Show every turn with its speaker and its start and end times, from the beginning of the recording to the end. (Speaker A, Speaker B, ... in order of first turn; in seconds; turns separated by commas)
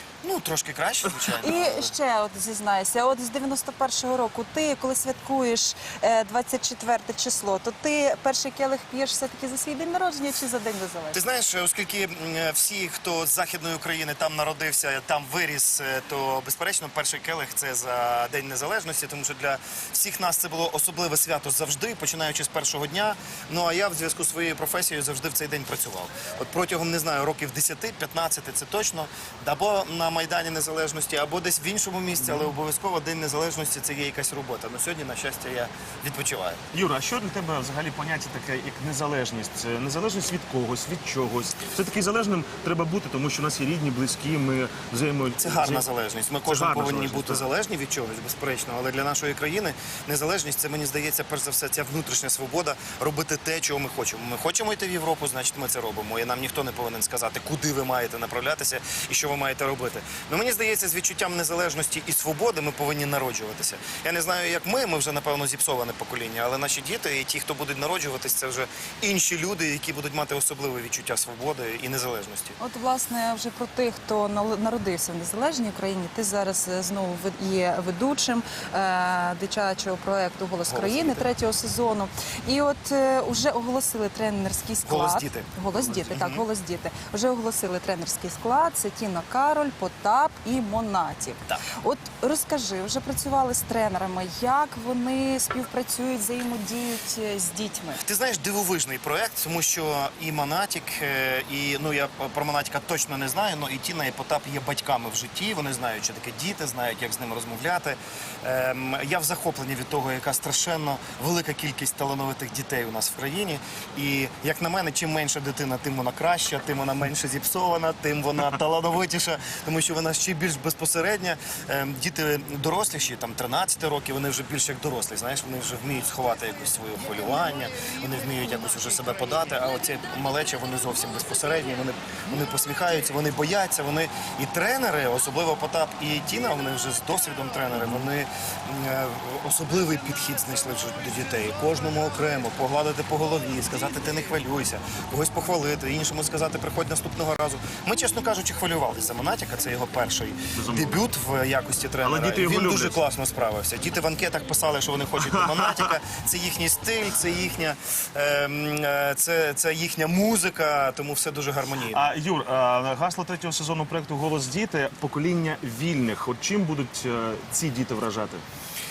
Speaker A: 0.2-1.9, Speaker B: 1.4-11.2, Speaker A: 11.1-36.6, Speaker C: 32.2-32.5, Speaker C: 36.7-45.8, Speaker A: 45.4-72.6, Speaker C: 46.4-47.5, Speaker B: 72.6-98.0, Speaker A: 80.7-81.3, Speaker A: 84.8-86.4, Speaker A: 98.0-162.1, Speaker C: 137.7-138.0, Speaker C: 150.6-151.0, Speaker C: 152.0-153.0, Speaker C: 155.2-155.9, Speaker C: 161.9-168.4